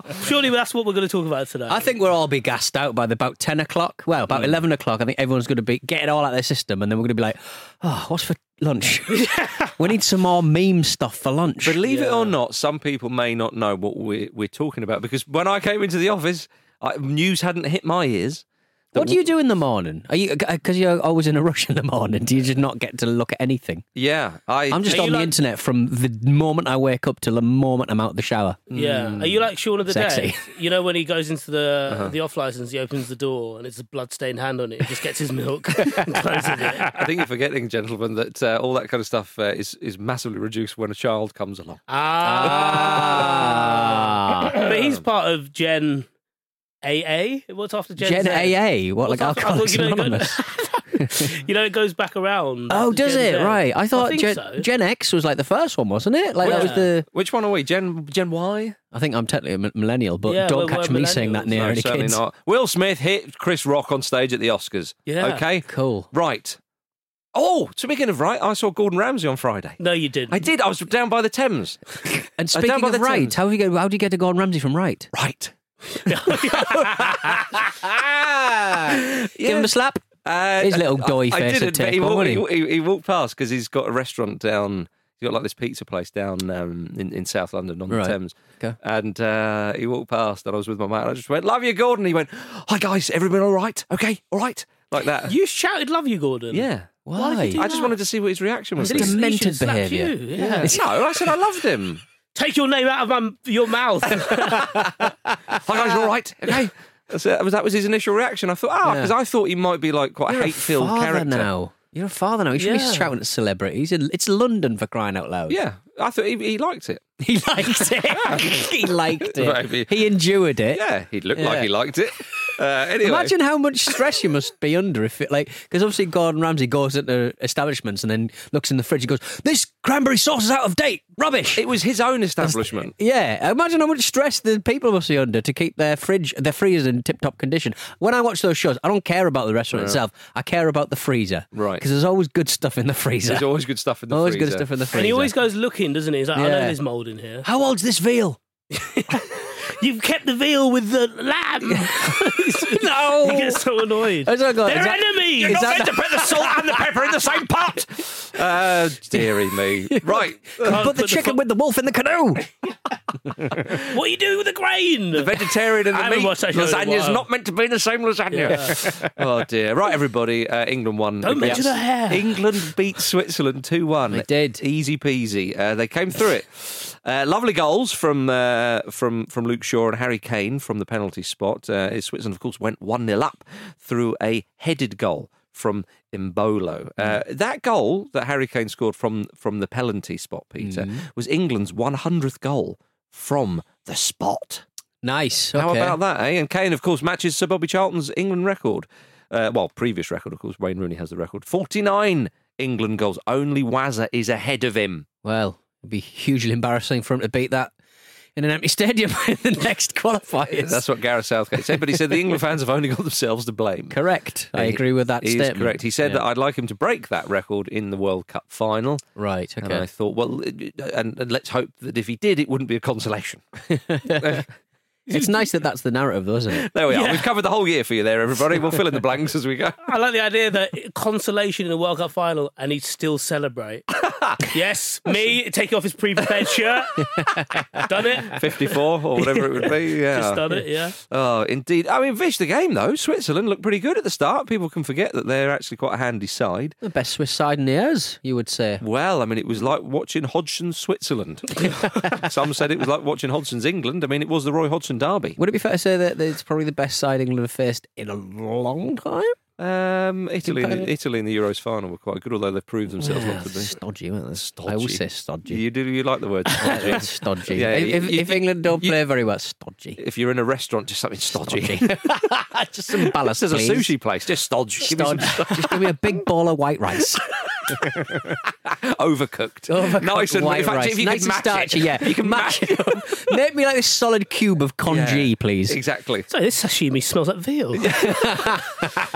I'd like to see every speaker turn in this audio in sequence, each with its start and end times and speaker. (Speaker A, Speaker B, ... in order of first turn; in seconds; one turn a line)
Speaker A: 0.2-1.9
Speaker B: 1.7-11.8
Speaker C: 4.3-4.5
Speaker A: 9.2-9.7
Speaker C: 11.6-19.2
Speaker A: 11.8-12.3
Speaker B: 18.9-23.9
Speaker C: 23.9-25.2
Speaker B: 24.7-28.7
Speaker A: 24.9-25.3
Speaker C: 28.7-29.4
Speaker A: 28.7-37.1
Speaker B: 29.9-30.5
Speaker C: 36.8-41.8
Speaker A: 41.9-46.1
Speaker B: 42.2-44.6
Speaker C: 42.4-42.8
Speaker A: 46.8-54.7
Speaker B: 48.0-50.4
Speaker B: 51.0-51.2
Speaker B: 52.7-57.1
Speaker A: 56.4-57.0
Speaker C: 56.4-58.8
Speaker B: 58.9-62.2
Speaker A: 60.2-61.6
Speaker C: 61.5-66.6
Speaker A: 65.0-65.4
Speaker B: 65.7-66.1
Speaker C: 67.3-71.8
Speaker A: 69.8-70.4
Speaker B: 72.4-75.1
Speaker C: 72.5-73.3
Speaker C: 75.1-75.5
Speaker A: 76.0-77.4
Speaker C: 76.0-78.2
Speaker B: 77.8-80.0
Speaker C: 78.9-79.7
Speaker C: 80.2-95.3
Speaker B: 80.6-82.4
Speaker B: 87.9-88.8
Speaker A: 95.2-98.0
Speaker C: 96.5-97.0
Speaker B: 97.0-97.6
Speaker C: 97.5-99.2
Speaker A: 98.8-100.8
Speaker B: 98.8-100.8
Speaker C: 100.4-102.0
Speaker A: 102.3-104.7
Speaker C: 104.4-104.8
Speaker B: 104.5-105.0
Speaker B: 105.6-105.8
Speaker C: 105.6-111.5
Speaker B: 108.8-109.1
Speaker B: 110.3-115.6
Speaker A: 112.6-113.1
Speaker C: 115.5-117.0
Speaker B: 117.2-120.8
Speaker C: 118.3-118.7
Speaker C: 119.2-119.9
Speaker C: 120.7-123.3
Speaker B: 121.3-121.7
Speaker B: 123.0-131.6
Speaker C: 131.6-132.9
Speaker B: 132.4-143.5
Speaker C: 139.7-140.0
Speaker C: 141.5-141.8
Speaker C: 143.2-144.7
Speaker B: 144.1-145.3
Speaker A: 144.9-147.4
Speaker B: 146.3-146.8
Speaker B: 147.4-148.3
Speaker A: 148.7-155.7
Speaker B: 151.7-153.7
Speaker B: 154.2-156.9
Speaker C: 155.4-160.9
Speaker B: 159.2-162.5
Speaker A: 160.7-161.3
Speaker A: 163.9-165.3
Speaker C: 165.1-194.6
Speaker A: 165.8-167.2
Speaker A: 168.3-168.8
Speaker B: 168.7-169.1
Speaker A: 171.2-172.4
Speaker B: 171.4-171.6
Speaker B: 174.1-174.6
Speaker B: 190.6-191.0
Speaker B: 195.0-196.0
Speaker C: 195.5-205.1
Speaker B: 205.2-207.7
Speaker B: 208.3-210.8
Speaker C: 210.5-214.0
Speaker B: 213.9-216.2
Speaker C: 214.5-219.1
Speaker B: 219.2-219.8
Speaker C: 219.6-223.4
Speaker B: 223.7-224.4
Speaker C: 224.2-224.4
Speaker B: 225.1-226.7
Speaker C: 226.5-229.8
Speaker A: 226.9-227.3
Speaker A: 229.8-233.8
Speaker C: 234.0-234.4
Speaker A: 234.5-237.0
Speaker B: 237.0-237.8
Speaker A: 237.9-238.4
Speaker C: 238.3-246.8
Speaker A: 239.6-240.9
Speaker B: 246.8-248.8
Speaker C: 248.8-255.4
Speaker B: 255.4-259.4
Speaker C: 259.6-263.8
Speaker B: 260.4-260.9
Speaker B: 263.0-265.6
Speaker C: 264.4-269.0
Speaker B: 266.5-270.0
Speaker C: 270.0-272.0
Speaker B: 271.4-273.9
Speaker C: 273.0-275.9
Speaker B: 274.8-277.2
Speaker C: 277.6-283.0
Speaker B: 279.7-285.8
Speaker C: 284.9-286.3
Speaker A: 286.3-287.9
Speaker C: 287.8-288.5
Speaker B: 287.9-288.8